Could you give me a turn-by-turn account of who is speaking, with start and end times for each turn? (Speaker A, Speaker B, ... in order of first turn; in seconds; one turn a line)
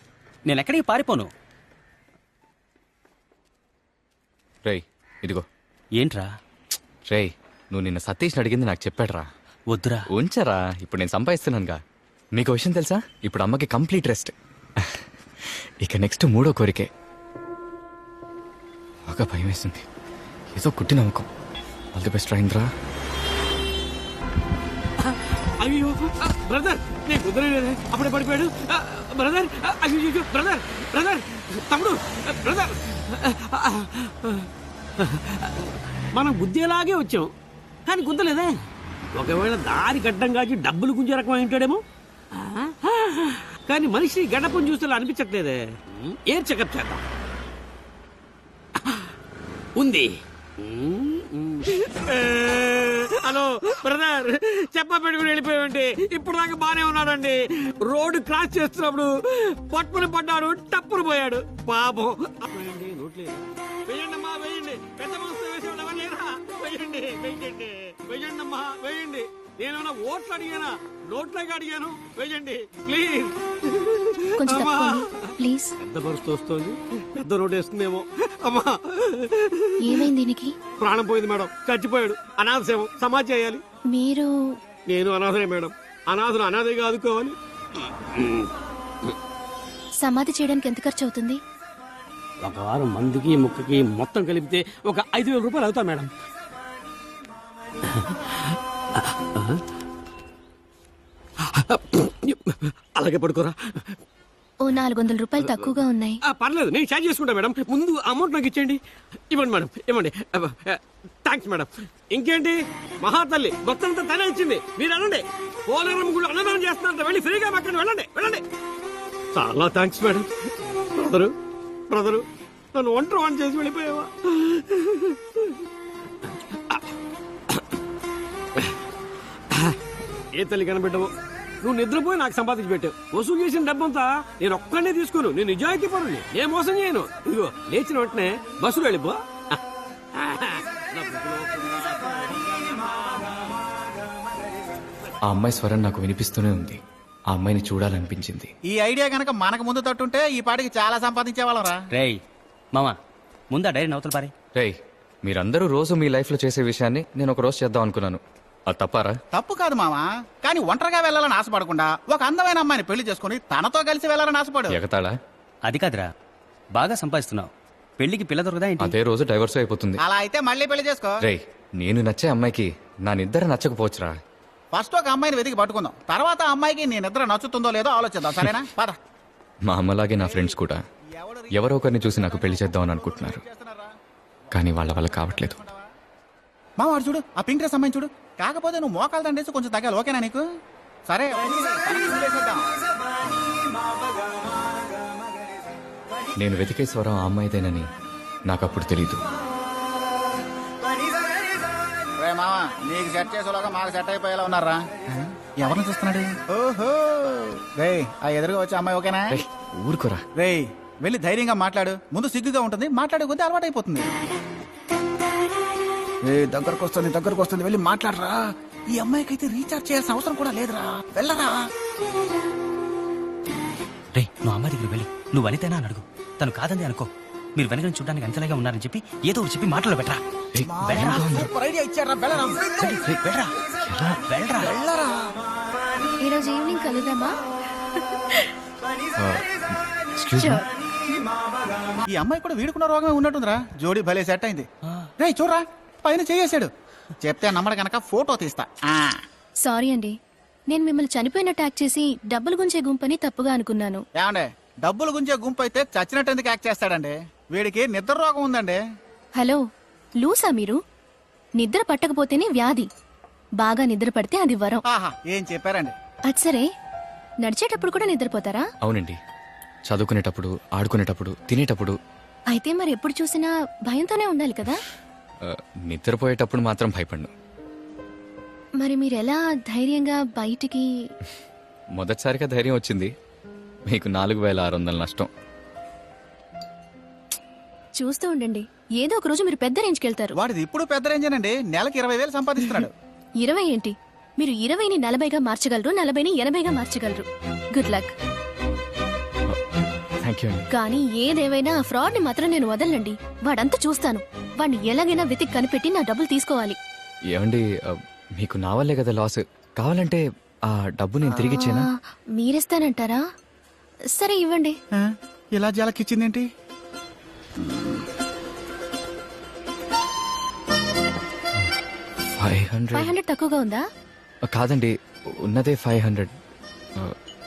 Speaker A: 0.5-1.3
Speaker B: 4.7-5.4
Speaker A: 6.0-6.3
Speaker B: 7.1-9.3
Speaker A: 9.7-10.1
Speaker B: 10.1-11.8
Speaker B: 12.3-16.9
Speaker B: 19.1-19.8
Speaker B: 20.6-21.3
Speaker B: 21.9-22.7
Speaker C: 25.6-34.5
Speaker C: 36.1-37.3
Speaker C: 37.9-38.5
Speaker C: 39.2-41.8
Speaker C: 42.4-47.0
Speaker C: 49.8-50.1
Speaker C: 50.6-57.4
Speaker C: 57.9-59.1
Speaker C: 59.7-75.3
Speaker D: 74.4-75.7
Speaker C: 75.9-80.1
Speaker D: 79.9-80.5
Speaker C: 80.8-83.6
Speaker D: 83.9-84.3
Speaker C: 84.9-87.3
Speaker D: 90.0-91.4
Speaker C: 92.4-96.1
Speaker C: 101.7-103.5
Speaker D: 104.6-106.2
Speaker C: 106.3-108.8
Speaker C: 109.3-118.4
Speaker C: 119.3-120.3
Speaker C: 121.0-121.3
Speaker C: 121.9-122.2
Speaker C: 122.7-125.1
Speaker C: 130.3-131.1
Speaker C: 131.6-139.2
Speaker C: 140.2-143.0
Speaker B: 145.2-146.8
Speaker B: 147.3-148.5
Speaker E: 148.7-151.8
Speaker A: 151.9-152.2
Speaker A: 153.5-154.3
Speaker B: 154.5-159.2
Speaker E: 159.3-164.8
Speaker B: 164.7-165.1
Speaker A: 165.6-166.1
Speaker A: 166.7-168.9
Speaker B: 168.8-170.0
Speaker E: 170.0-171.1
Speaker B: 171.2-174.2
Speaker E: 174.7-179.0
Speaker B: 179.7-180.8
Speaker E: 180.2-180.5
Speaker E: 181.1-183.9
Speaker B: 181.5-183.4
Speaker B: 184.5-185.6
Speaker E: 185.1-185.9
Speaker E: 186.8-190.4
Speaker E: 191.1-192.7
Speaker B: 196.4-197.8
Speaker B: 198.5-199.2
Speaker E: 202.2-209.3
Speaker B: 209.3-210.2
Speaker E: 210.4-214.1
Speaker E: 216.2-218.4
Speaker E: 218.9-221.6
Speaker A: 224.1-230.2
Speaker B: 230.5-231.5
Speaker E: 230.6-232.9
Speaker A: 230.8-231.2
Speaker A: 232.8-233.5
Speaker B: 233.8-234.2
Speaker A: 234.3-234.8
Speaker E: 234.6-235.2
Speaker D: 236.2-237.3
Speaker B: 239.2-239.4
Speaker B: 240.2-240.6
Speaker D: 240.4-240.6
Speaker E: 242.1-244.7
Speaker E: 245.2-246.7
Speaker E: 247.2-249.1
Speaker D: 249.6-250.1
Speaker D: 250.7-254.0
Speaker E: 254.2-258.8
Speaker D: 260.2-260.8
Speaker D: 261.6-262.9
Speaker D: 263.6-264.8
Speaker E: 264.9-265.9
Speaker D: 266.3-266.7
Speaker D: 267.4-268.6
Speaker B: 268.8-269.2
Speaker B: 269.9-271.9
Speaker D: 272.5-274.8
Speaker B: 275.4-277.3
Speaker D: 278.8-280.9
Speaker B: 282.0-283.1
Speaker B: 283.9-285.3
Speaker D: 288.0-290.3
Speaker E: 290.4-292.9
Speaker D: 293.4-298.1
Speaker B: 300.2-300.6
Speaker D: 300.7-306.8
Speaker B: 307.3-311.9
Speaker D: 311.4-313.2
Speaker D: 314.2-314.7
Speaker E: 315.0-316.5
Speaker B: 322.4-323.1
Speaker D: 322.9-323.8
Speaker B: 324.5-324.9
Speaker B: 325.4-326.3